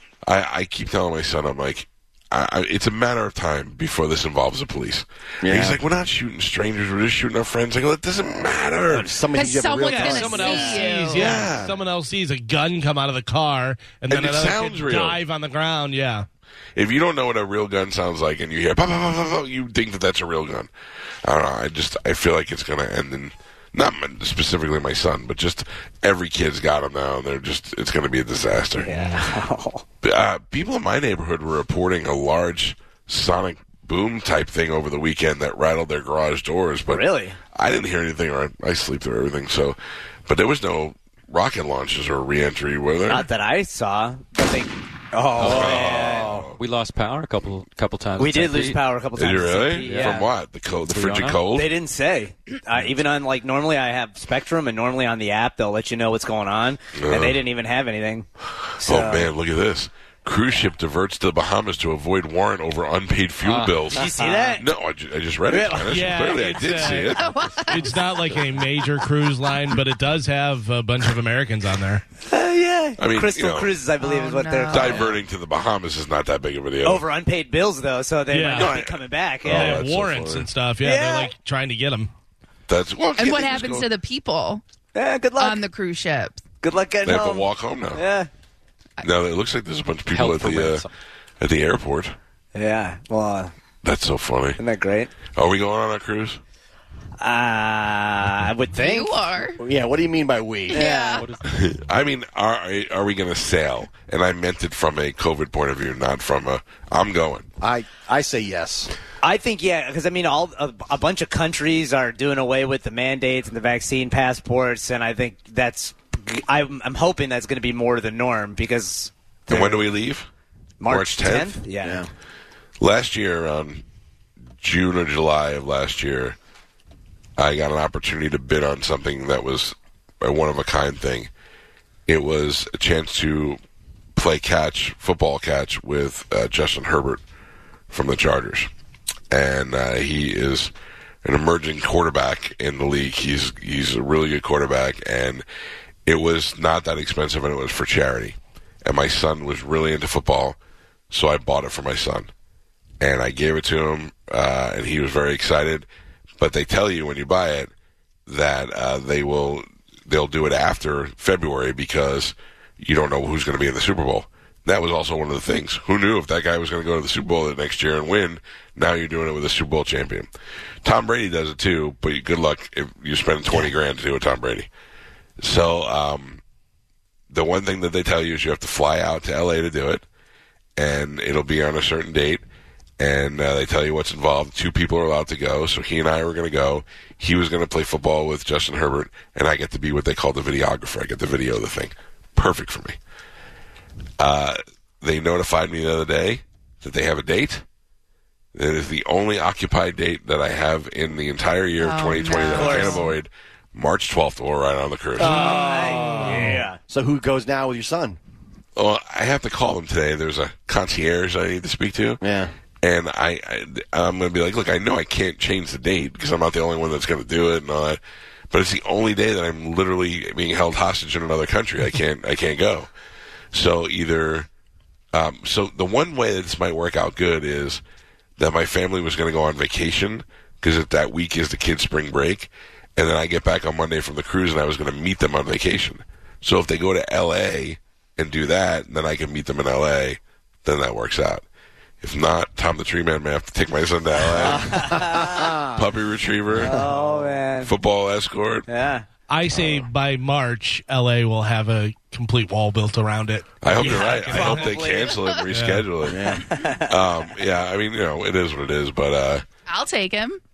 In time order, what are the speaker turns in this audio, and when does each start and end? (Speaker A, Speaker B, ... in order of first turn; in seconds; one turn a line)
Speaker A: 0.2-9.2
Speaker B: 5.4-5.8
Speaker B: 8.9-10.6
Speaker C: 9.3-11.4
Speaker D: 9.9-10.8
Speaker E: 10.0-16.2
Speaker A: 11.1-11.8
Speaker A: 14.1-15.2
Speaker A: 16.8-20.7
Speaker A: 21.2-29.0
Speaker D: 28.8-29.8
Speaker E: 28.9-29.2
Speaker A: 30.0-43.3
Speaker D: 36.9-37.4
Speaker D: 43.1-46.5
Speaker F: 45.4-48.9
Speaker A: 45.4-46.6
Speaker D: 48.2-50.3
Speaker A: 49.1-51.7
Speaker F: 49.8-50.3
Speaker F: 50.9-51.4
Speaker D: 51.5-58.3
Speaker A: 57.0-57.4
Speaker D: 58.8-59.3
Speaker A: 58.8-67.4
Speaker F: 63.4-64.5
Speaker D: 63.9-64.7
Speaker D: 65.5-66.0
Speaker E: 65.9-72.0
Speaker C: 67.1-68.2
Speaker D: 72.2-75.1
Speaker A: 73.0-73.8
Speaker C: 74.0-75.1
Speaker A: 74.7-77.0
Speaker D: 76.8-79.8
Speaker E: 78.3-78.8
Speaker A: 78.5-80.5
Speaker E: 79.5-82.1
Speaker D: 80.8-81.3
Speaker A: 82.7-83.9
Speaker C: 83.2-84.6
Speaker D: 84.9-85.6
Speaker C: 85.4-86.4
Speaker D: 86.6-88.3
Speaker A: 87.0-88.0
Speaker A: 89.0-90.8
Speaker F: 90.1-90.9
Speaker A: 91.4-92.2
Speaker D: 92.5-93.5
Speaker A: 93.8-94.6
Speaker D: 94.6-95.1
Speaker A: 95.3-96.4
Speaker D: 97.2-99.2
Speaker C: 98.8-99.6
Speaker B: 99.6-100.8
Speaker C: 100.7-101.2
Speaker D: 100.7-101.3
Speaker F: 101.2-101.7
Speaker A: 101.4-107.5
Speaker B: 107.6-108.9
Speaker D: 109.2-119.9
Speaker A: 119.5-120.3
Speaker D: 120.8-122.0
Speaker A: 120.8-121.6
Speaker B: 121.8-122.1
Speaker A: 122.8-123.8
Speaker A: 124.6-126.4
Speaker A: 127.4-131.3
Speaker A: 132.1-133.6
Speaker A: 134.1-137.2
Speaker A: 137.9-138.7
Speaker A: 139.3-140.7
Speaker A: 141.2-145.4
Speaker A: 146.1-150.6
Speaker A: 151.1-152.3
Speaker A: 153.0-155.9
Speaker A: 156.4-157.7
Speaker A: 158.3-170.3
Speaker A: 170.8-174.7
Speaker A: 175.4-176.4
Speaker A: 177.3-180.0
Speaker A: 180.8-182.4
Speaker A: 183.0-193.0
Speaker A: 194.2-197.6
Speaker A: 198.5-205.5
Speaker C: 201.8-203.1
Speaker D: 202.3-203.1
Speaker D: 205.2-206.8
Speaker B: 205.2-208.2
Speaker E: 205.3-206.6
Speaker A: 208.8-212.2
Speaker B: 212.2-212.5
Speaker A: 212.8-218.0
Speaker A: 218.5-222.9
Speaker A: 223.5-224.5
Speaker A: 225.1-227.8
Speaker A: 228.4-241.4
Speaker A: 242.0-245.0
Speaker D: 244.2-245.6
Speaker B: 244.4-245.8
Speaker A: 245.7-246.8
Speaker B: 246.5-247.3
Speaker D: 246.6-247.7
Speaker A: 247.6-248.7
Speaker D: 248.7-249.1
Speaker E: 249.3-254.8
Speaker A: 253.6-259.4
Speaker D: 253.7-255.2
Speaker E: 255.5-255.8
Speaker B: 256.0-256.5
Speaker D: 256.2-257.0
Speaker C: 259.7-260.4